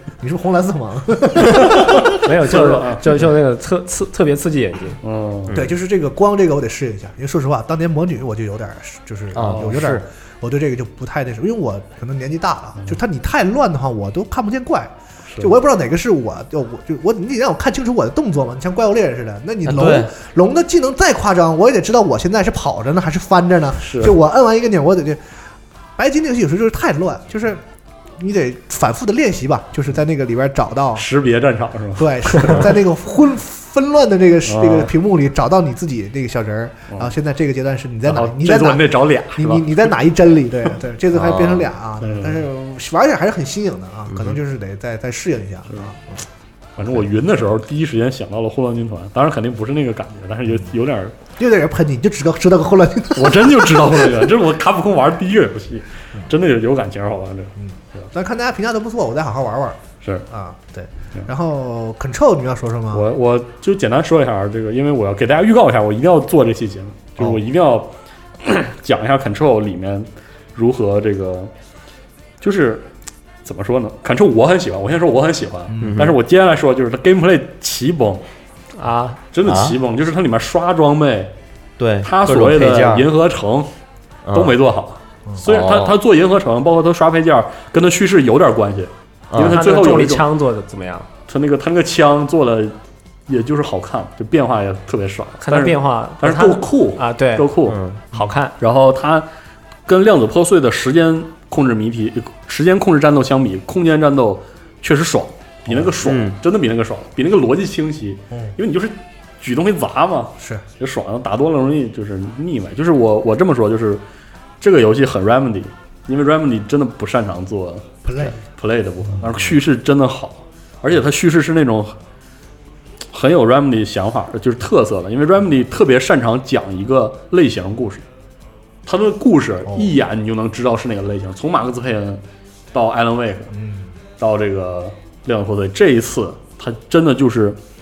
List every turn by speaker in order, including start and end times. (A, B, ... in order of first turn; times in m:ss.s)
0:00.2-0:02.2 A
0:02.0-0:05.0 B
0:02.4-0:03.0 C
0:05.0-0:05.5 C
0:05.5-0:05.7 D
0:05.5-0:25.2 A
0:09.3-0:10.0 D
0:09.5-0:09.8 C
0:19.6-0:20.1 D
0:23.8-0:24.1 C
0:26.0-0:27.6 A
0:28.2-0:31.1 A
0:31.0-0:32.8 C
0:31.9-0:46.2 A
0:34.4-0:34.9 C
0:38.0-0:39.9 C
0:41.1-0:41.7 D
0:42.0-0:42.4 C
0:46.8-0:51.2 C
0:51.4-0:54.3 A
0:53.1-0:58.1 C
0:57.6-1:03.1 A
1:02.9-1:11.5 C
1:12.4-1:12.9 C
1:13.4-1:18.2 C
1:15.7-1:16.0 A
1:15.8-1:16.2 D
1:18.7-1:19.2 B
1:19.3-1:21.3 C
1:19.4-1:19.8 D
1:21.8-1:23.1 D
1:22.0-1:23.7 C
1:24.2-1:24.6 D
1:24.3-1:30.3 C
1:25.4-1:26.0 D
1:29.3-1:29.8 D
1:29.4-1:31.1 B
1:31.3-1:32.7 C
1:33.3-1:37.8 C
1:35.4-1:37.5 B
1:37.6-1:38.0 D
1:38.1-1:38.6 B
1:38.6-1:39.3 C
1:39.8-1:54.0 C
1:46.0-1:46.4 D
1:50.4-1:50.6 A
1:54.6-2:02.0 C
1:58.0-1:58.4 A
2:03.1-2:08.0 C
2:08.8-2:13.5 C
2:09.7-2:09.9 A
2:13.5-2:13.9 A
2:14.2-2:17.6 C